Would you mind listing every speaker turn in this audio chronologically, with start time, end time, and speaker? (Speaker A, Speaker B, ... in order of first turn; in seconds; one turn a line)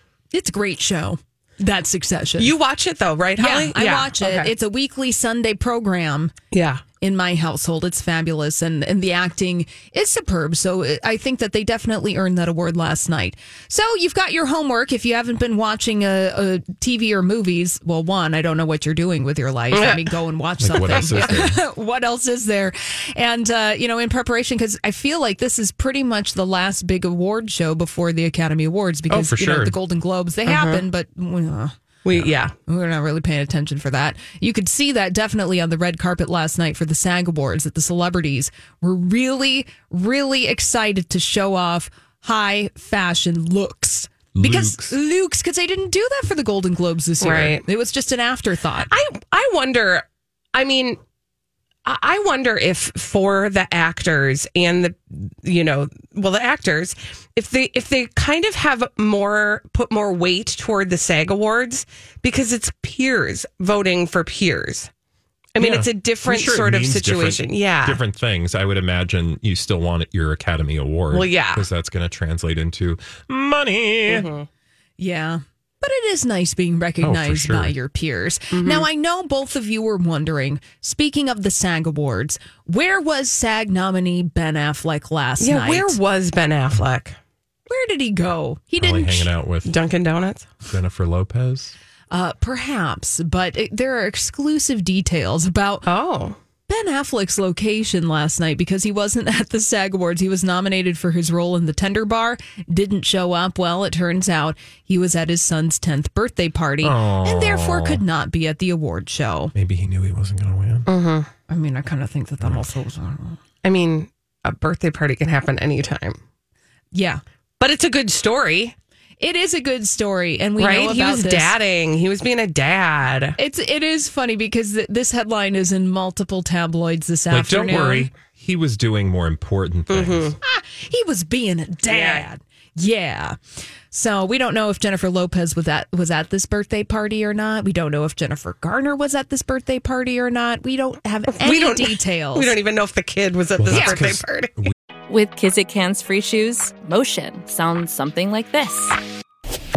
Speaker A: 0.3-2.5
Speaker B: 2.4-4.5
Speaker A: 3.4-6.3
Speaker B: 6.5-6.8
Speaker A: 7.0-31.7
Speaker B: 19.7-20.1
Speaker C: 20.6-21.6
Speaker B: 20.8-21.3
Speaker C: 29.1-29.8
Speaker B: 30.5-30.8
Speaker B: 32.0-32.5
Speaker A: 32.7-48.9
Speaker C: 44.4-45.0
Speaker B: 47.2-47.6
Speaker B: 48.9-51.0
Speaker B: 51.9-64.9
Speaker B: 65.5-68.0
Speaker C: 65.6-74.3
Speaker B: 71.1-71.6
Speaker B: 74.1-74.5
Speaker A: 75.0-86.0
Speaker C: 77.0-77.7
Speaker B: 78.5-78.9
Speaker B: 85.4-87.2
Speaker A: 87.7-89.3
Speaker C: 88.8-89.8
Speaker B: 89.7-90.5
Speaker C: 90.7-91.8
Speaker A: 92.1-95.9
Speaker B: 95.9-96.4
Speaker A: 96.7-109.5
Speaker C: 106.8-108.0
Speaker C: 109.5-110.9
Speaker B: 110.9-111.3
Speaker A: 111.5-113.4
Speaker B: 113.6-116.2
Speaker A: 116.9-117.2
Speaker B: 117.6-118.8
Speaker A: 119.2-121.5
Speaker B: 120.6-123.4
Speaker A: 123.4-128.1
Speaker C: 127.3-130.3
Speaker B: 129.9-130.4
Speaker A: 130.4-133.4
Speaker B: 131.9-132.2
Speaker A: 133.9-142.5
Speaker B: 141.4-144.5
Speaker C: 143.6-144.7
Speaker D: 145.1-149.0